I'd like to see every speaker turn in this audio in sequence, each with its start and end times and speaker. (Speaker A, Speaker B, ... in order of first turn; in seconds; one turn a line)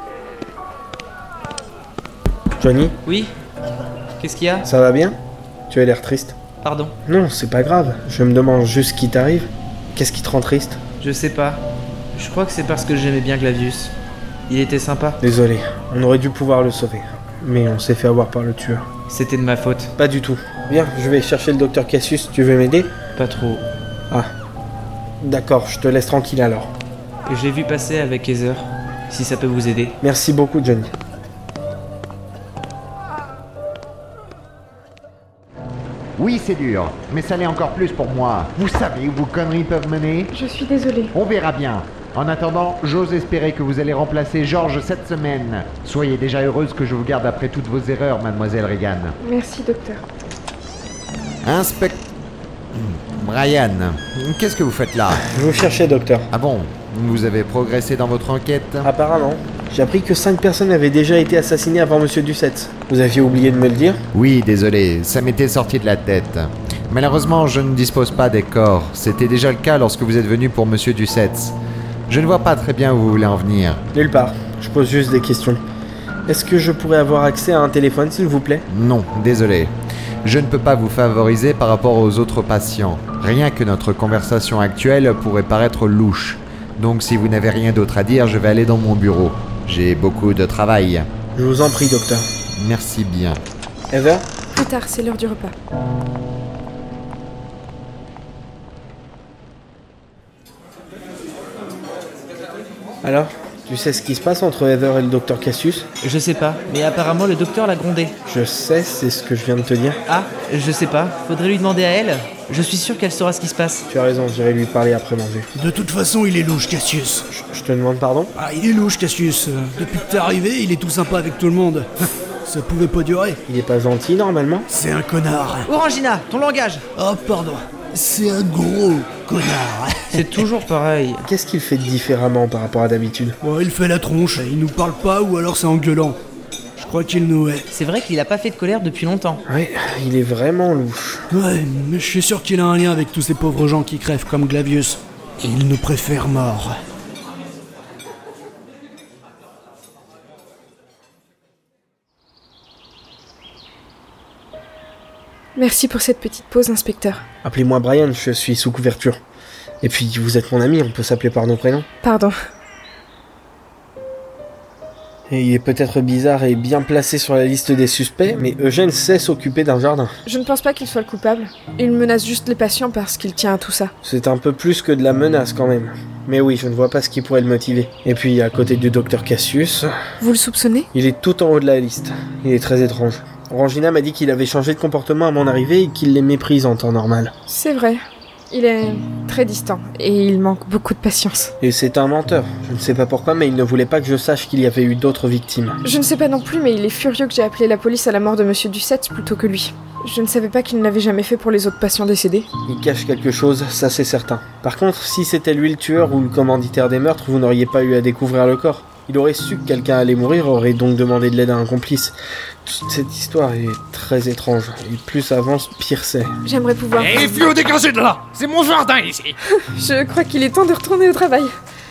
Speaker A: 2.6-3.0
Speaker B: 4.2-4.6
Speaker A: 4.6-5.2
Speaker A: 5.7-6.4
Speaker A: 7.0-10.8
Speaker B: 11.1-11.6
Speaker B: 12.1-13.9
Speaker B: 14.5-15.2
Speaker A: 15.2-18.8
Speaker B: 19.1-19.9
Speaker A: 20.0-22.9
Speaker B: 23.1-23.6
Speaker A: 25.2-26.7
Speaker B: 27.3-29.9
Speaker A: 30.0-30.9
Speaker C: 36.2-40.3
Speaker D: 40.3-41.1
Speaker C: 41.1-49.2
Speaker D: 49.2-50.0
Speaker C: 51.4-52.0
Speaker C: 52.7-55.2
Speaker A: 55.2-56.3
Speaker C: 56.3-58.9
Speaker A: 58.8-64.0
Speaker C: 64.1-71.5
Speaker C: 72.1-73.8
Speaker A: 73.9-75.6
Speaker A: 76.3-78.6
Speaker C: 78.7-91.0
Speaker A: 91.3-92.2
Speaker C: 92.6-93.4
Speaker A: 93.9-94.2
Speaker D: 94.5-95.5
Speaker A: 103.0-105.9
Speaker B: 106.0-108.1
Speaker A: 108.3-110.0
Speaker B: 110.5-113.8
Speaker A: 113.9-115.5
Speaker E: 115.5-117.2
Speaker A: 117.3-118.3
Speaker E: 118.3-123.4
Speaker A: 123.5-124.7
Speaker E: 124.7-125.8
Speaker D: 125.7-126.0
Speaker B: 126.1-126.7
Speaker E: 126.9-130.7
Speaker D: 130.1-130.6
Speaker B: 130.7-131.2
Speaker A: 131.2-133.4
Speaker E: 133.4-136.2
Speaker E: 136.8-137.7
Speaker D: 137.7-138.3
Speaker B: 137.8-139.2
Speaker D: 139.2-139.4
Speaker A: 139.5-141.2
Speaker E: 141.3-146.8
Speaker D: 155.6-157.2
Speaker A: 157.4-159.2
Speaker A: 159.8-161.8
Speaker D: 162.0-162.3
Speaker A: 165.3-170.1
Speaker D: 170.2-173.9
Speaker A: 174.0-179.9
Speaker D: 180.2-180.9
Speaker A: 180.9-187.3
Speaker D: 187.5-191.5
Speaker A: 191.6-195.8
Speaker D: 195.8-202.5
Speaker A: 202.7-212.1
Speaker A: 212.7-216.3
Speaker D: 216.4-217.6
Speaker F: 217.0-219.3
Speaker D: 219.6-221.5